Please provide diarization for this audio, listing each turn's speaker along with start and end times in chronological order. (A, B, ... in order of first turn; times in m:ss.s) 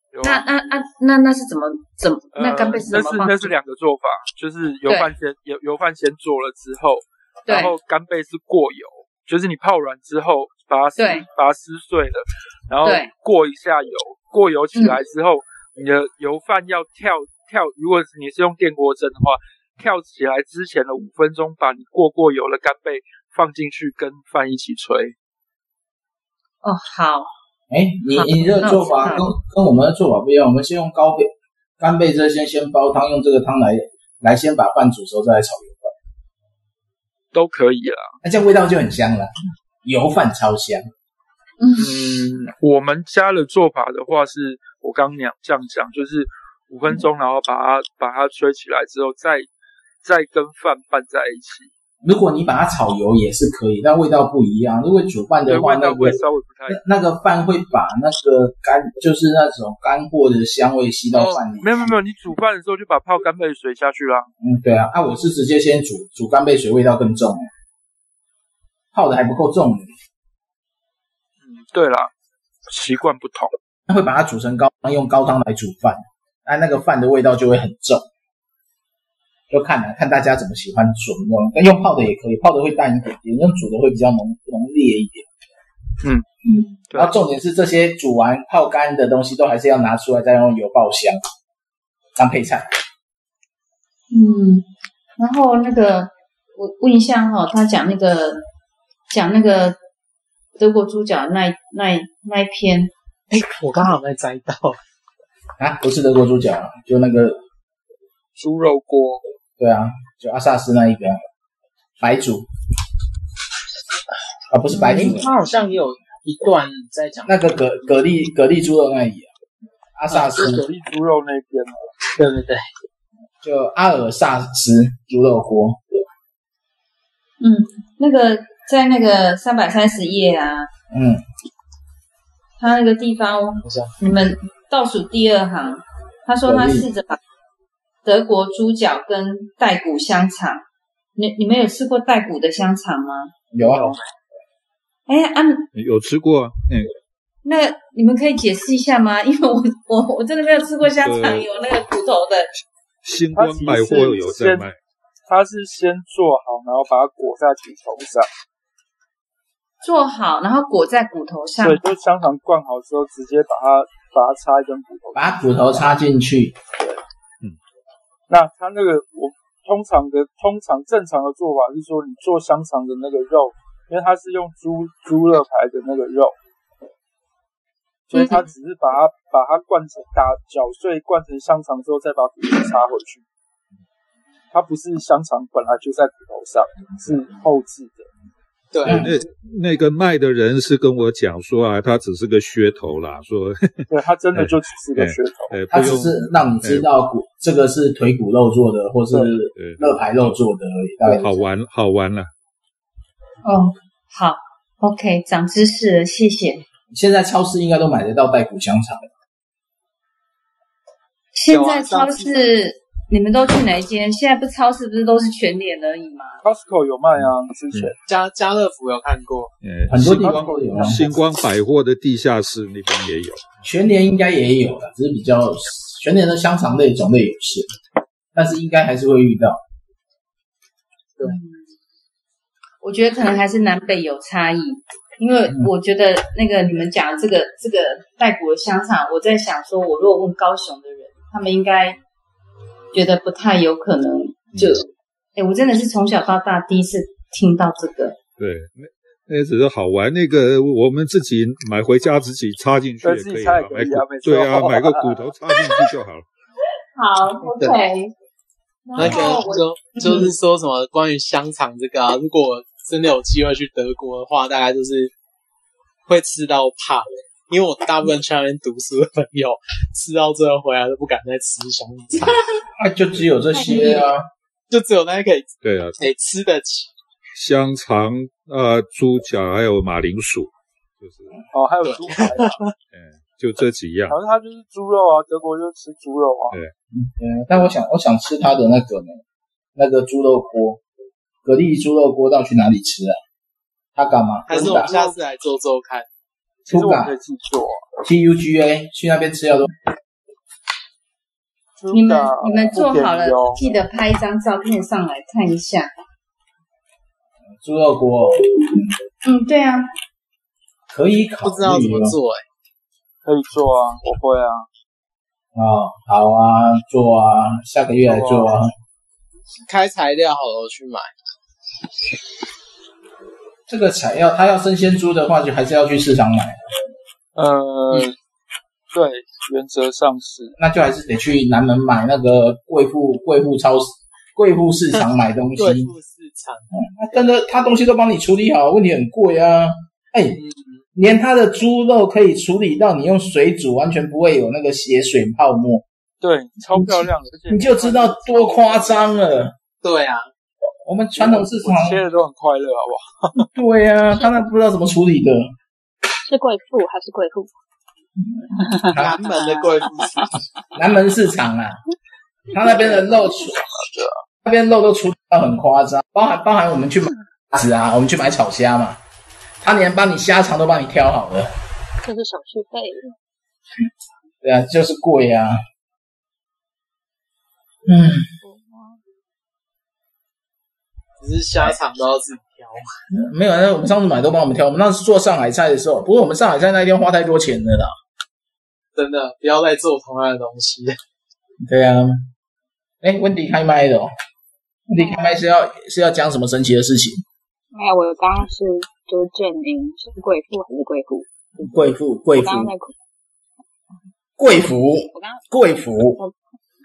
0:00.1-0:00.5 A
0:00.2-0:03.5 B
0:02.3-0:25.1 A
0:04.9-0:05.1 B
0:07.5-0:07.7 B
0:11.0-0:11.3 B
0:12.8-0:13.1 B
0:26.6-0:27.3 B
0:27.7-0:35.9 C
0:28.1-0:29.3 B
0:37.3-0:38.1 A
0:38.2-0:39.3 C
0:39.8-0:40.9 C
0:41.6-0:42.0 B
0:41.8-0:49.5 A
0:50.0-0:51.7 A
0:52.0-1:01.9 C
0:55.5-0:56.8 A
1:01.1-1:04.3 A
1:04.4-1:07.5 C
1:08.9-1:09.9 C
1:11.4-1:12.1 A
1:12.7-1:13.5 A
1:13.9-1:18.1 C
1:19.5-1:25.3 C
1:26.5-1:31.2 C
1:32.2-1:32.6 C
1:34.1-1:34.6 B
1:35.2-1:38.4 B
1:39.1-1:39.8 B
1:40.6-1:42.9 B
1:43.3-1:44.8 D
1:45.6-1:47.4 C
1:48.4-1:49.2 A
1:49.6-1:51.2 C
1:52.0-1:52.5 C
1:54.5-1:55.3 C
1:54.8-1:57.4 D
1:57.2-1:59.3 C
2:00.0-2:00.6 C
2:00.1-2:01.9 A
2:00.2-2:00.5 D
2:02.2-2:02.6 D
2:03.4-2:05.8 C
2:07.4-2:10.7 B
2:10.9-2:11.2 C
2:12.6-2:17.2 B
2:13.6-2:13.9 D
2:16.4-2:16.9 C
2:18.0-2:20.6 B
2:21.2-2:23.3 B
2:23.5-2:24.0 C
2:23.6-2:24.0 D
2:25.1-2:25.7 B
2:25.7-2:26.9 E
2:27.4-2:32.5 B
2:30.9-2:31.5 E
2:33.0-2:34.8 E
2:33.3-2:34.7 A
2:35.2-2:38.3 A
2:39.8-2:41.8 B
2:41.6-2:45.8 A
2:45.1-2:46.6 C
2:48.3-2:56.3 A
2:58.1-3:03.2 A
3:04.5-3:08.1 A
3:08.7-3:09.1 D
3:08.8-3:09.1 C
3:08.9-3:16.8 E
3:13.9-3:15.6 A
3:15.7-3:21.3 C
3:19.5-3:20.0 E
3:21.0-3:22.3 E
3:23.4-3:26.6 B
3:26.9-3:29.1 C
3:31.3-3:36.4 B
3:36.4-3:38.0 A
3:37.2-3:37.9 E
3:38.0-3:39.5 D
3:39.6-3:43.4 E
3:39.9-3:41.0 C
3:40.2-3:41.1 A
3:43.6-3:47.7 C
3:48.3-3:49.6 C
3:51.2-3:51.6 B
3:52.8-4:02.0 B
4:02.9-4:08.2 B
4:08.4-4:16.2 E
4:13.0-4:15.3 A
4:16.9-4:18.1 B
4:18.8-4:20.3 B
4:18.9-4:25.1 D
4:26.1-4:32.3 D
4:32.8-4:34.2 C
4:33.5-4:34.0 B
4:34.7-4:36.9 D
4:35.6-4:36.0 E
4:37.3-4:41.4 E
4:41.5-4:42.7 A
4:42.1-4:42.7 D
4:42.9-4:44.2 E
4:44.1-4:46.6 A
4:46.9-4:49.2 C
4:49.8-4:50.8 C
4:51.4-4:53.2 C
4:54.0-4:54.9 C
4:54.5-4:56.1 D
4:54.5-4:55.2 A
4:56.6-4:57.8 A
4:56.7-4:57.1 C
4:58.0-4:59.7 C
5:01.8-5:03.8 A
5:01.9-5:05.9 B
5:07.6-5:08.9 C
5:09.2-5:09.9 B
5:10.9-5:12.1 C
5:11.4-5:12.4 D
5:13.2-5:14.7 A
5:15.6-5:18.7 C
5:18.0-5:18.5 A
5:19.6-5:21.1 D
5:23.7-5:26.6 C
5:27.3-5:28.2 A
5:28.9-5:30.6 A
5:30.6-5:35.9 C
5:34.9-5:37.4 D
5:36.7-5:40.4 C
5:40.4-5:40.8 D
5:40.9-5:45.8 C
5:46.2-5:49.5 A
5:46.7-5:49.5 C
5:49.8-5:50.3 D
5:50.8-5:52.0 C
5:51.2-5:53.3 A
5:53.5-5:55.5 C
5:56.2-5:57.5 F
5:58.2-5:59.2 C
5:58.6-6:00.0 F
5:58.9-6:00.2 D
6:00.7-6:01.8 C
6:02.5-6:03.6 C
6:02.8-6:04.2 A
6:04.4-6:09.0 C
6:09.6-6:11.5 C
6:12.0-6:13.2 F
6:14.4-6:15.6 C
6:17.9-6:18.2 C
6:18.4-6:19.0 F
6:21.2-6:22.9 D
6:23.1-6:27.9 C
6:28.9-6:31.0 D
6:31.6-6:32.3 C
6:33.0-6:34.1 C
6:34.9-6:37.2 C
6:35.0-6:35.4 F
6:37.7-6:41.3 F
6:41.6-6:42.7 C
6:42.3-6:42.9 F
6:44.4-6:46.2 C
6:45.1-6:45.4 F